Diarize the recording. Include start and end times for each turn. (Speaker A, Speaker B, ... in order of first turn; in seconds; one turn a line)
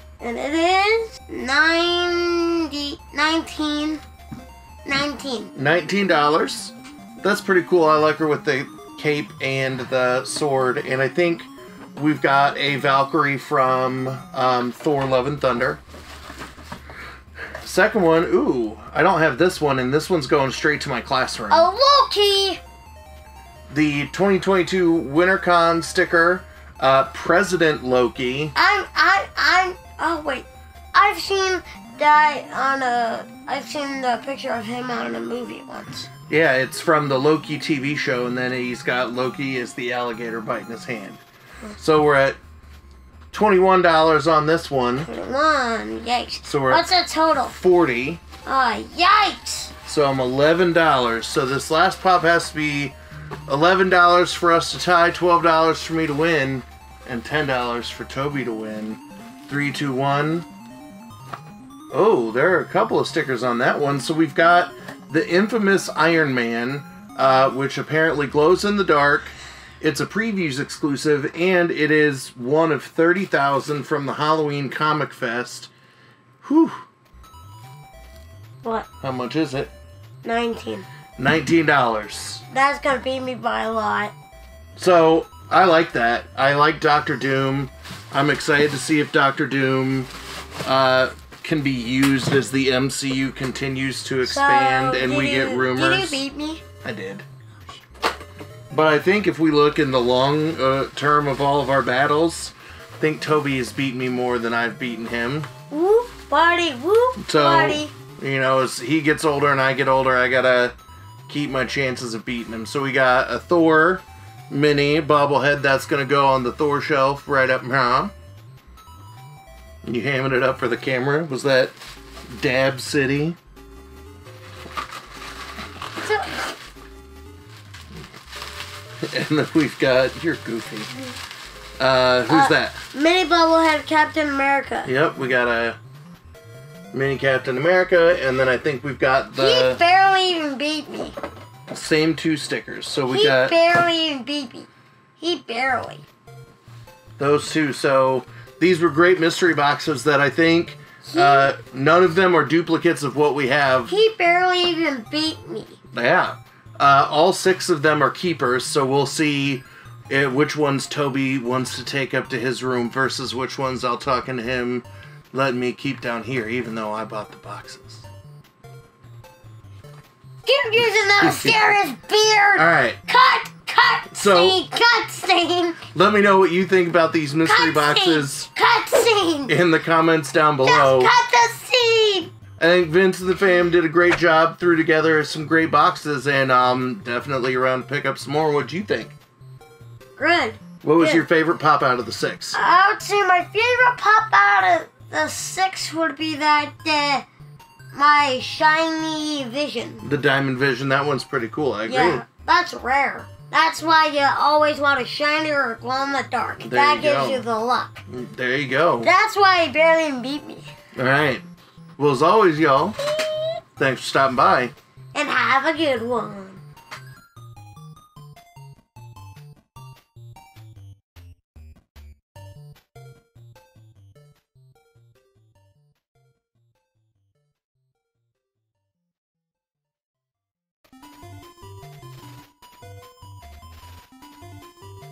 Speaker A: 0.2-4.0
Speaker A: 4.8-5.5
Speaker B: 5.5-15.8
Speaker B: 17.6-21.7
Speaker A: 21.5-22.6
Speaker B: 23.7-28.5
Speaker A: 28.5-36.1
Speaker B: 36.3-41.2
Speaker B: 41.8-42.4
Speaker B: 43.3-45.1
Speaker A: 45.1-47.5
Speaker B: 46.4-46.9
Speaker B: 47.4-48.2
Speaker A: 48.4-49.7
Speaker B: 49.8-52.9
Speaker B: 53.5-60.5
Speaker B: 61.9-75.7
Speaker B: 76.4-76.8
Speaker B: 79.0-79.7
Speaker A: 80.2-80.9
Speaker B: 81.2-82.4
Speaker A: 82.5-84.1
Speaker B: 84.8-90.1
Speaker B: 90.6-96.2
Speaker A: 94.2-96.6
Speaker B: 96.8-97.2
Speaker B: 98.7-105.5
Speaker A: 105.7-107.9
Speaker B: 107.2-110.8
Speaker B: 111.3-118.1
Speaker B: 119.8-121.8
Speaker B: 122.3-123.4
Speaker B: 129.0-130.9
Speaker B: 131.8-132.8
Speaker A: 132.3-134.9
Speaker B: 134.8-135.8
Speaker B: 136.9-139.8
Speaker A: 139.4-141.2
Speaker B: 141.7-143.6
Speaker A: 143.1-146.0
Speaker B: 147.2-153.9
Speaker A: 151.1-151.5
Speaker A: 153.9-155.8
Speaker B: 155.9-168.1
Speaker A: 170.4-175.8
Speaker B: 171.2-171.8
Speaker B: 172.6-173.0
Speaker B: 174.1-174.6
Speaker B: 175.9-178.5
Speaker A: 177.4-179.5
Speaker B: 179.5-181.1
Speaker A: 180.6-182.3
Speaker B: 182.6-189.1
Speaker A: 190.2-191.2
Speaker B: 190.8-192.6
Speaker A: 192.5-197.2
Speaker A: 197.9-200.0
Speaker B: 200.0-202.2
Speaker A: 201.9-208.0
Speaker B: 206.6-207.4
Speaker B: 208.1-209.1
Speaker A: 209.0-210.7
Speaker B: 210.9-211.4
Speaker B: 212.0-213.0
Speaker B: 213.8-214.7
Speaker A: 215.1-216.6